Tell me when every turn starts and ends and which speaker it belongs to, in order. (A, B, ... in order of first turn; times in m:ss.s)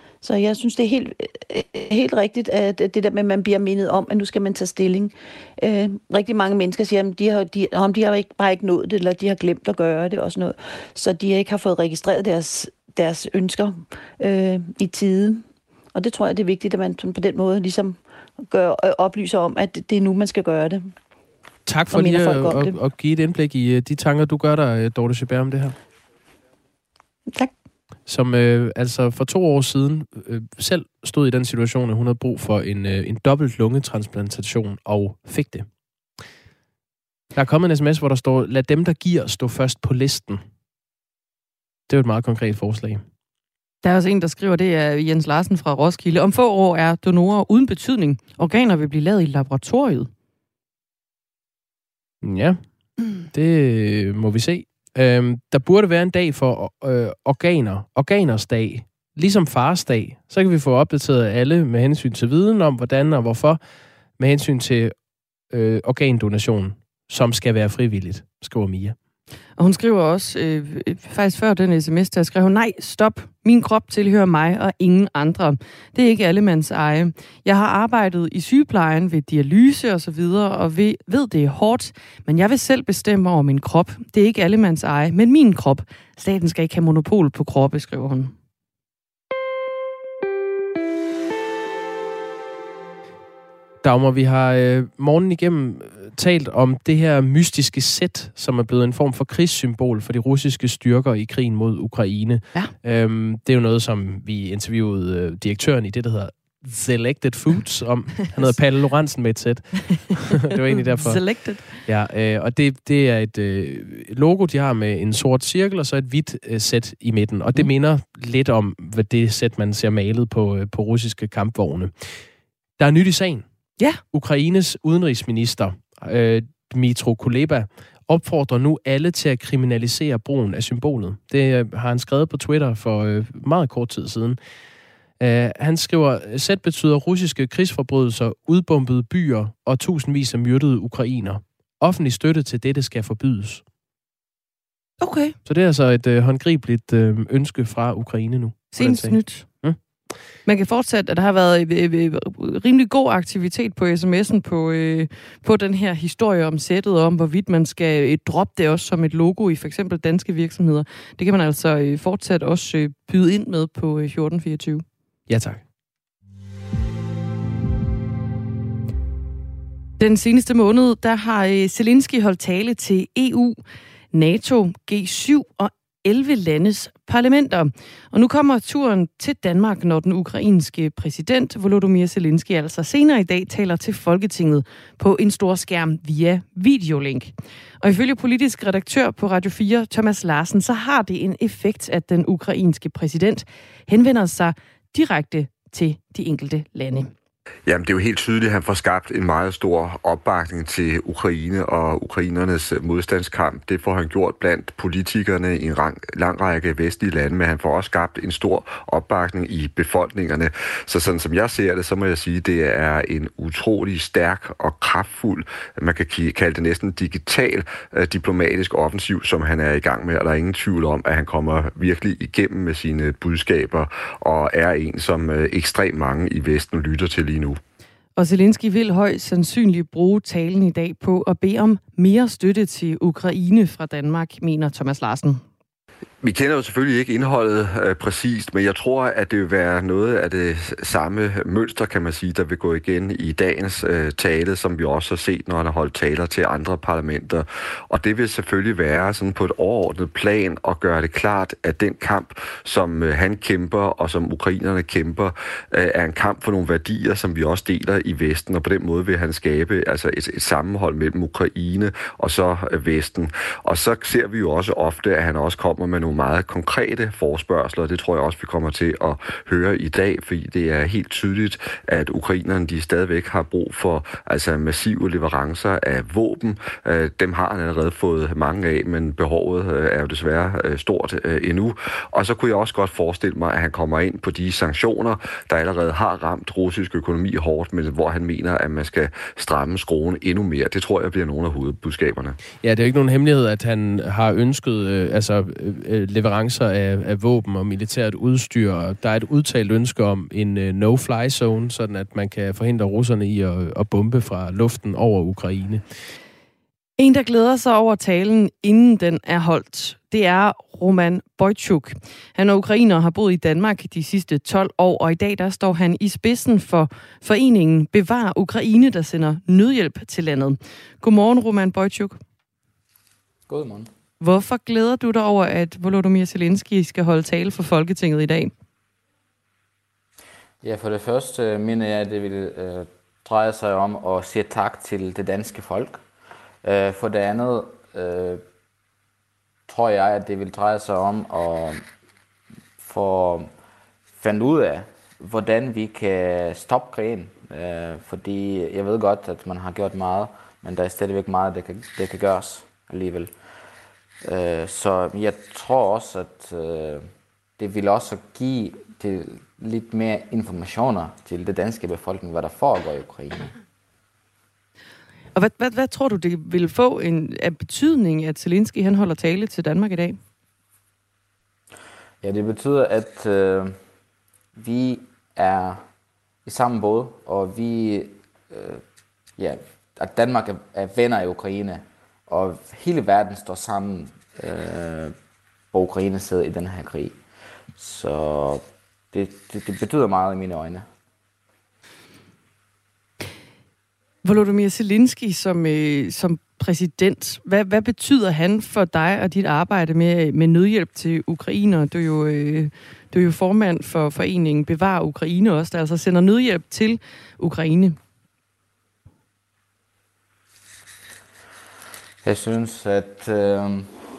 0:00.2-0:20.9 A
0:21.6-0:25.8 B
0:21.9-0:22.8 A
0:28.1-0:35.7 B
0:37.3-0:40.4 B
0:41.9-0:43.0 B
0:43.8-0:50.1 C
0:52.2-1:03.6 B
1:04.2-1:05.0 B
1:05.5-1:09.0 B
1:09.6-1:28.3 C
1:33.8-2:02.2 B
1:51.0-1:51.8 C
2:02.8-2:03.4 B
2:04.0-2:14.4 B
2:15.2-2:23.6 B
2:25.0-2:25.4 C
2:25.4-2:29.8 B
2:28.7-2:29.5 C
2:30.4-2:44.8 C
2:45.3-2:45.6 B
2:50.0-2:53.6 C
2:54.1-3:17.1 C
3:17.6-3:47.6 D
3:48.2-3:55.4 C
3:56.2-4:52.4 D
4:52.6-5:05.8 B
5:07.0-5:22.2 C
5:23.5-5:23.9 E
5:24.2-5:28.5 C
5:30.6-5:36.0 E
5:36.6-5:38.4 E
5:39.7-5:41.8 E
5:42.8-5:43.5 E
5:44.2-5:53.3 E
5:54.2-6:03.5 E
6:05.3-6:10.2 C
6:12.2-6:13.8 E
6:14.5-6:15.8 E
6:16.4-6:18.8 E
6:19.4-6:25.1 E
6:25.7-6:27.2 E
6:27.8-6:30.9 E
6:34.2-6:48.0 C
6:52.2-6:54.0 E